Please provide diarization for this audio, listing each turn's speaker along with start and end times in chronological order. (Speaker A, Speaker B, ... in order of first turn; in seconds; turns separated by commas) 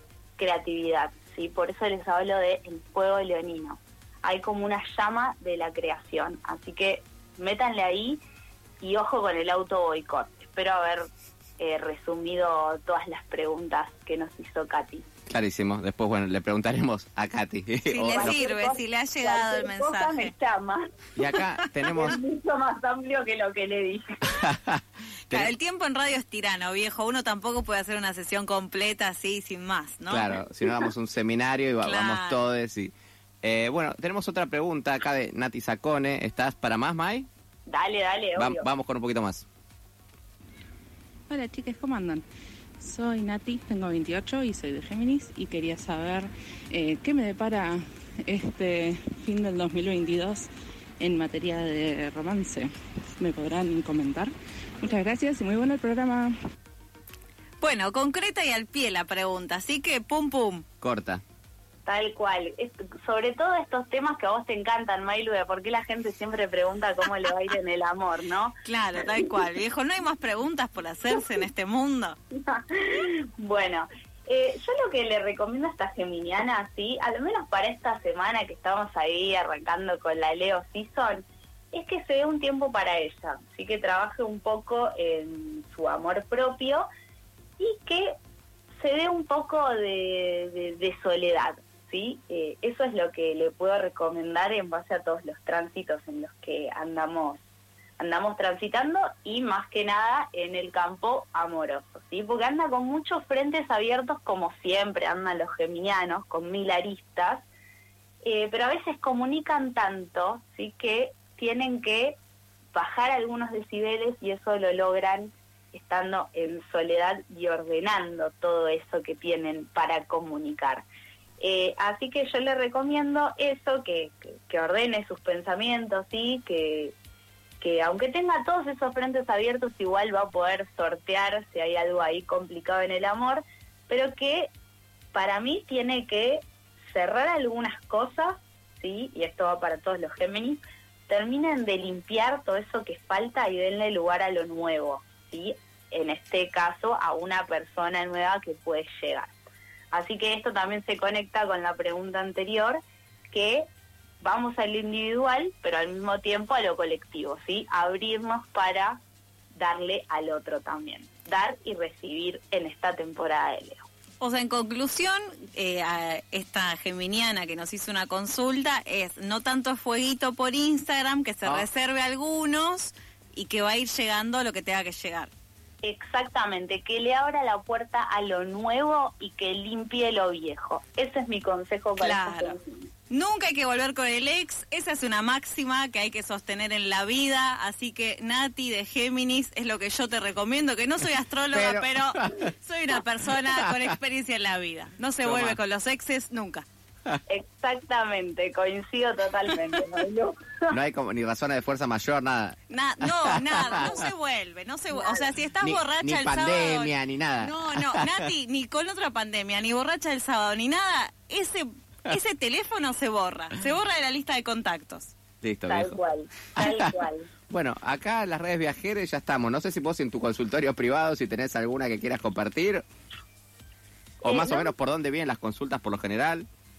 Speaker A: 0.4-8.2, Speaker A: 8.8-15.1, Speaker B: 15.3-18.4, Speaker C: 17.9-20.3, Speaker A: 18.1-20.9, Speaker B: 21.2-22.1, Speaker A: 21.9-24.3, Speaker B: 24.4-25.5, Speaker C: 25.3-30.4, Speaker B: 30.1-37.3, Speaker C: 31.8-32.4, Speaker A: 37.7-38.7, Speaker B: 38.4-39.4, Speaker D: 41.3-42.2, Speaker D: 42.8-56.3, Speaker C: 57.6-60.6, Speaker B: 60.8-61.2, Speaker A: 61.8-68.5, Speaker C: 68.6-72.2, Speaker A: 72.3-86.9, Speaker A: 87.6-88.1, Speaker A: 88.8-97.4, Speaker A: 98.0-107.5, Speaker A: 108.2-112.2, Speaker A: 112.7-120.8, Speaker A: 121.4-126.9, Speaker A: 127.6-134.5, Speaker A: 135.1-149.3, Speaker A: 149.9-153.7, Speaker A: 154.2-159.0, Speaker A: 159.6-163.8, Speaker C: 164.2-175.3, Speaker A: 175.8-182.9, Speaker C: 182.0-182.6, Speaker C: 183.1-196.7, Speaker B: 191.5-192.5, Speaker B: 193.4-193.9, Speaker B: 195.2-195.6, Speaker A: 197.3-200.8, Speaker B: 200.7-202.6, Speaker C: 202.7-215.1, Speaker B: 203.4-204.0, Speaker A: 204.9-205.3, Speaker B: 205.6-208.1, Speaker B: 215.4-216.0, Speaker A: 215.7-217.3, Speaker B: 216.6-216.9, Speaker B: 217.5-222.8, Speaker A: 224.2-224.7, Speaker B: 224.2-226.4